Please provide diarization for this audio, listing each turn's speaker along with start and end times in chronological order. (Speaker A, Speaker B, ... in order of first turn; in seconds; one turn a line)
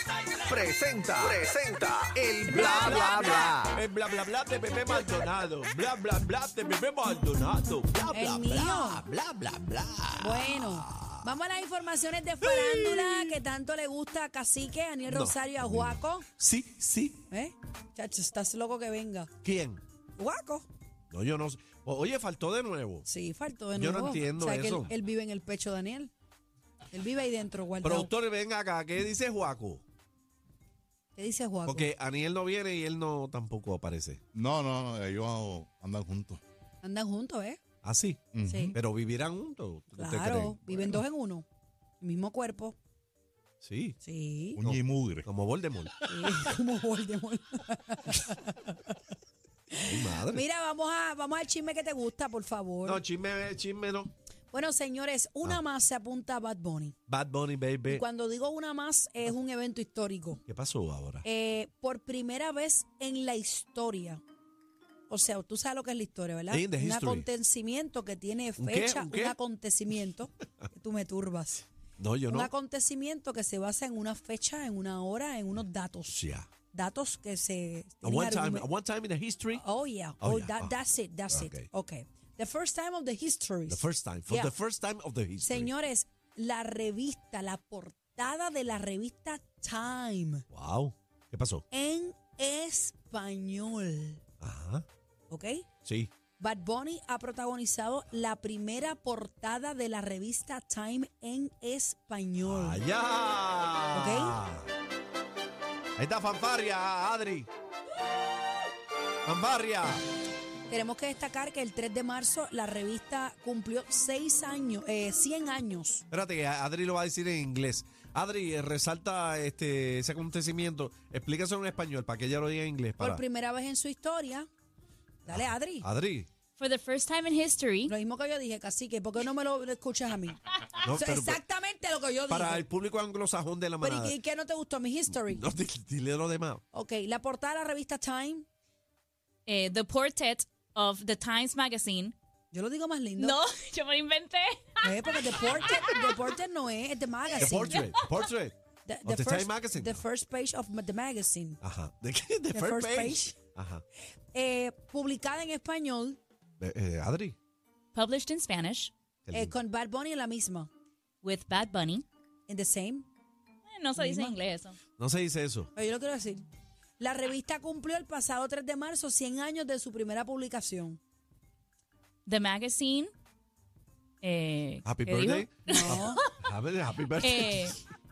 Speaker A: 0.5-3.8
Speaker B: 2.5-11.1
Speaker C: 2.5-3.5
Speaker C: 8.1-9.0
Speaker C: 10.2-16.3
Speaker B: 12.6-13.2
Speaker B: 15.1-17.2
Speaker C: 17.3-19.3
Speaker B: 19.4-19.8
Speaker C: 20.2-20.7
Speaker B: 21.1-23.1
Speaker C: 23.1-26.1
Speaker B: 23.7-24.9
Speaker C: 26.9-28.1
Speaker B: 27.8-29.8
Speaker C: 31.1-31.9
Speaker B: 31.6-34.2
Speaker D: 34.3-36.4
Speaker C: 36.8-37.6
Speaker B: 37.8-38.2
Speaker D: 38.3-38.8
Speaker C: 38.5-38.8
Speaker B: 38.7-40.9
Speaker C: 39.9-41.5
Speaker C: 42.0-42.8
Speaker B: 43.6-44.0
Speaker C: 44.0-44.6
Speaker D: 44.6-45.3
Speaker B: 44.6-46.0
Speaker C: 46.0-48.9
Speaker C: 49.7-53.0
Speaker B: 49.8-50.4
Speaker B: 52.8-54.1
Speaker C: 54.5-56.9
Speaker B: 57.1-58.0
Speaker C: 57.9-60.4
Speaker B: 60.5-61.2
Speaker C: 61.2-64.2
Speaker C: 65.1-71.7
Speaker B: 66.5-67.3
Speaker B: 68.6-69.4
Speaker B: 72.0-72.5
Speaker C: 72.3-78.7
Speaker B: 76.1-76.5
Speaker B: 78.0-79.6
Speaker C: 79.5-84.5
Speaker B: 80.2-80.7
Speaker B: 81.3-81.7
Speaker B: 83.7-85.7
Speaker C: 85.4-90.4
Speaker B: 90.5-91.6
Speaker C: 91.7-94.2
Speaker B: 94.4-94.8
Speaker C: 95.3-95.7
Speaker B: 95.8-96.1
Speaker C: 96.4-102.8
Speaker B: 102.4-104.7
Speaker C: 103.9-104.4
Speaker B: 106.0-107.5
Speaker B: 109.2-110.0
Speaker C: 110.7-116.0
Speaker B: 116.1-123.2
Speaker C: 123.0-124.5
Speaker C: 125.3-125.9
Speaker B: 125.3-126.3
Speaker E: 126.6-127.9
Speaker C: 127.9-132.7
Speaker B: 130.8-131.4
Speaker B: 132.3-134.2
Speaker C: 133.8-135.4
Speaker B: 135.2-136.6
Speaker C: 136.7-138.5
Speaker E: 139.5-142.2
Speaker C: 142.5-143.4
Speaker E: 143.2-145.9
Speaker C: 144.8-147.8
Speaker E: 147.4-148.2
Speaker B: 147.4-150.0
Speaker C: 148.8-151.6
Speaker B: 151.6-153.8
Speaker C: 152.5-153.4
Speaker C: 154.3-156.2
Speaker B: 156.6-157.4
Speaker E: 157.9-158.9
Speaker B: 159.3-159.5
Speaker C: 159.3-160.7
Speaker E: 161.2-162.1
Speaker C: 162.5-163.1
Speaker E: 163.7-164.8
Speaker C: 164.0-164.4
Speaker B: 165.0-165.7
Speaker C: 165.8-166.4
Speaker C: 167.0-171.0
Speaker E: 172.3-173.1
Speaker E: 174.2-176.2
Speaker B: 174.8-177.8
Speaker C: 175.7-176.2
Speaker E: 177.2-177.8